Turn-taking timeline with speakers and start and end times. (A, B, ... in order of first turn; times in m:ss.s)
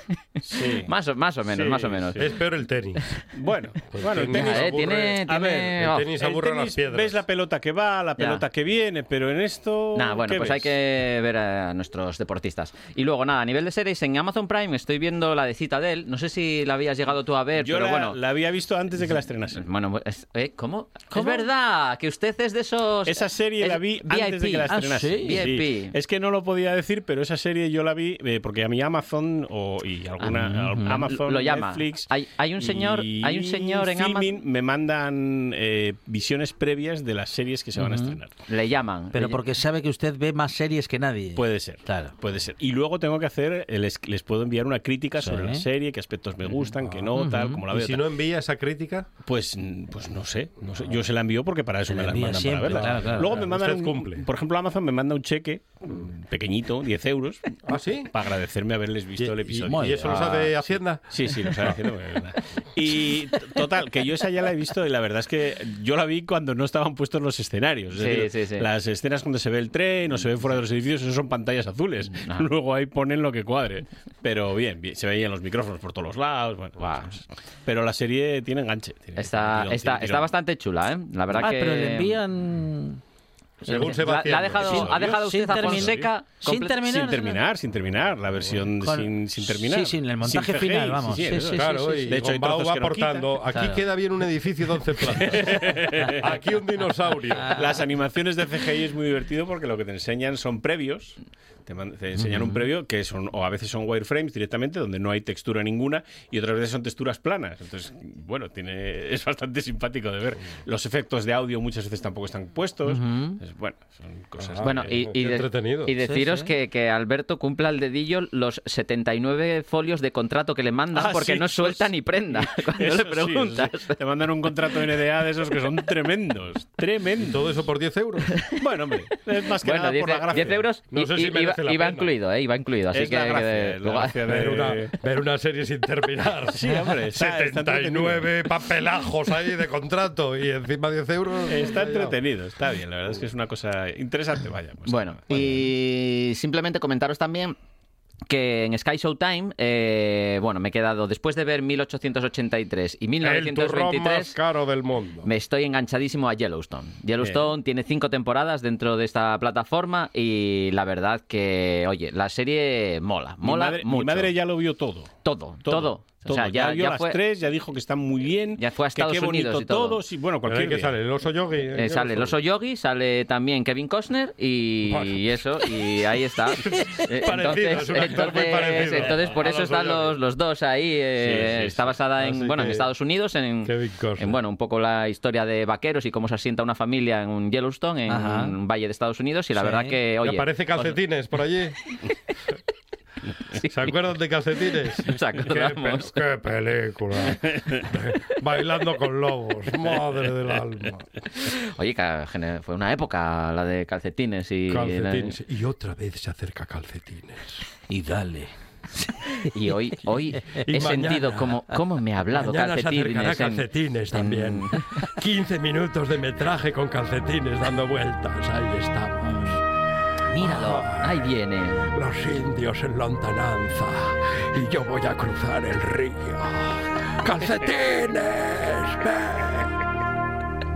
0:00.4-0:00.9 A
0:00.6-0:02.2 B
0:01.5-0:02.3 A
0:02.2-0:03.2 C
0:03.3-0:10.7 A
0:03.9-0:05.1 C
0:04.2-0:06.1 B
0:05.8-0:07.2 C
0:08.2-0:08.4 B
0:10.0-0:18.2 B
0:17.6-0:19.6 A
0:19.1-0:26.0 B
0:21.1-0:21.5 A
0:23.1-0:38.3 A
0:24.7-0:25.5 D
0:30.4-0:31.1 D
0:31.0-0:34.4 B
0:37.8-0:38.2 D
0:38.5-0:39.4 B
0:39.1-0:42.1 D
0:41.4-0:48.1 A
0:45.2-0:45.7 D
0:46.8-0:47.1 C
0:47.1-0:47.6 D
0:47.7-0:49.1 C
0:49.2-1:20.3 A
0:51.9-0:53.4 D
0:52.6-0:54.3 C
0:57.6-0:58.1 C
0:59.2-1:02.0 C
0:59.7-1:00.0 D
1:00.1-1:00.5 B
1:07.9-1:08.7 B
1:12.1-1:12.5 B
1:16.8-1:17.1 B
1:19.2-1:22.2 B
1:21.4-1:23.0 D
1:23.6-1:25.1 C
1:23.6-1:27.4 D
1:23.7-1:26.8 B
1:24.6-1:26.0 A
1:26.8-1:33.3 A
1:28.4-1:28.7 C
1:28.7-1:32.1 D
1:31.5-1:37.7 C
1:33.5-1:33.8 D
1:35.0-1:36.3 A
1:37.5-1:55.2 A
1:42.2-1:42.6 D
1:52.9-1:53.4 D
1:54.4-1:55.9 C
1:54.6-2:05.0 B
1:56.0-1:56.5 D
2:00.9-2:07.6 A
2:07.2-2:08.3 C
2:08.6-2:10.8 A
2:09.2-2:14.6 B
2:10.8-2:12.1 C
2:12.9-2:15.0 A
2:14.3-2:22.2 C
2:16.5-2:18.5 A
2:21.5-2:25.6 A
2:24.9-2:27.6 B
2:28.3-2:34.4 B
2:33.2-2:35.3 C
2:35.2-2:44.3 B
2:37.2-2:37.5 A
2:43.4-2:45.1 A
2:45.2-2:47.2 B
2:45.6-2:51.0 A
2:48.6-2:50.0 B
2:50.4-2:52.4 C
2:51.7-3:11.0 B
2:54.9-2:55.4 C
2:56.4-3:00.2 C
2:59.0-2:59.3 A
3:01.2-3:02.0 A
3:02.2-3:02.8 C
3:03.6-3:04.4 C
3:08.1-3:08.6 D
3:09.6-3:10.0 D
3:10.2-3:11.8 C
3:13.6-3:14.0 B
3:13.7-3:21.0 C
3:15.0-3:16.2 B
3:17.5-3:17.9 A
3:21.5-3:25.4 B
3:24.7-3:27.6 C
3:27.9-3:29.7 D
3:29.5-3:34.8 B
3:30.7-3:31.6 C
3:32.3-3:39.6 C
3:40.3-3:41.9 B
3:40.4-3:41.2 C
3:41.9-3:49.7 C